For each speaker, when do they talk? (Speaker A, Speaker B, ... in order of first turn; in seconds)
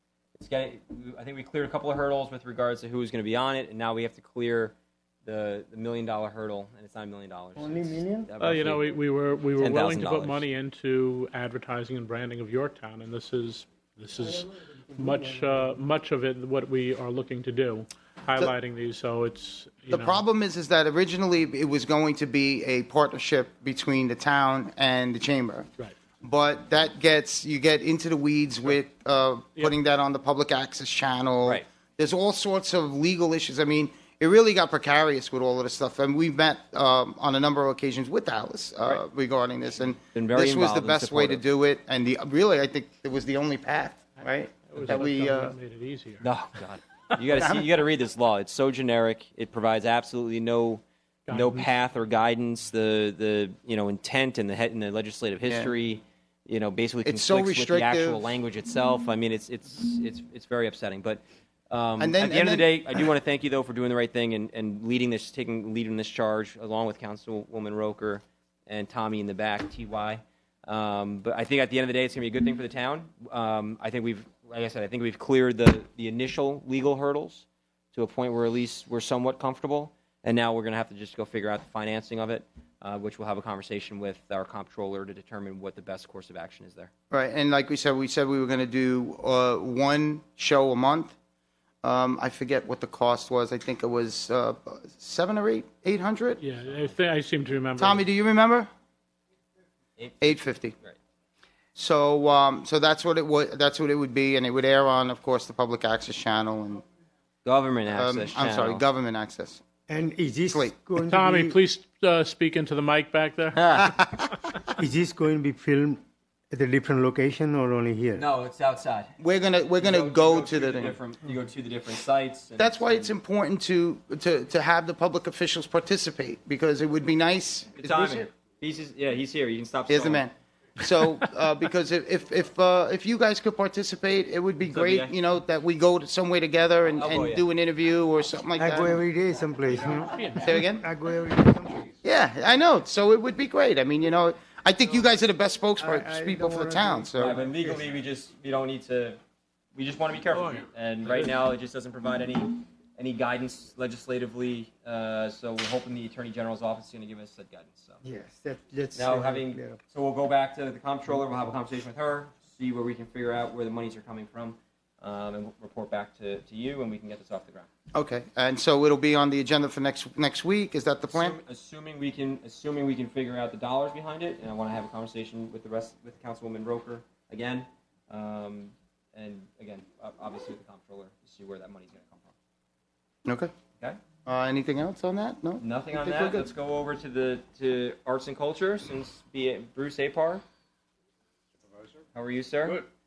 Speaker A: 0.4-8.9, 9.6-10.4, 40.1-41.4, 46.2-86.9, 100.0-101.0, 107.4-108.8, 118.2-119.1, 119.8-123.1, 127.8-130.3, 134.7-135.1, 136.9-137.4, 139.7-140.0, 147.2-149.2, 149.8-158.0, 158.9-167.7, 171.1-182.3, 185.6-190.4, 192.1-192.9
Speaker B: 7.6-8.3, 14.2-15.7, 109.9-111.6, 114.8-116.0, 116.5-118.3, 138.6-141.9, 145.8-147.8, 158.0-159.8
Speaker C: 8.4-20.2, 44.7-46.3, 51.3-51.7, 96.4-98.0, 111.0-113.8, 140.1-140.6, 150.3-151.3
Speaker D: 19.9-25.7, 26.2-45.5, 47.3-47.7, 57.0-58.2, 62.0-63.0, 87.1-91.1, 91.8-96.4, 97.8-98.7, 100.2-100.8, 101.8-106.8, 107.9-109.6, 110.5-110.8, 113.6-114.3, 119.2-121.0, 122.6-128.3, 129.9-139.0, 140.4-140.8, 142.0-147.4, 167.9-171.4, 183.3-183.5, 184.3-186.5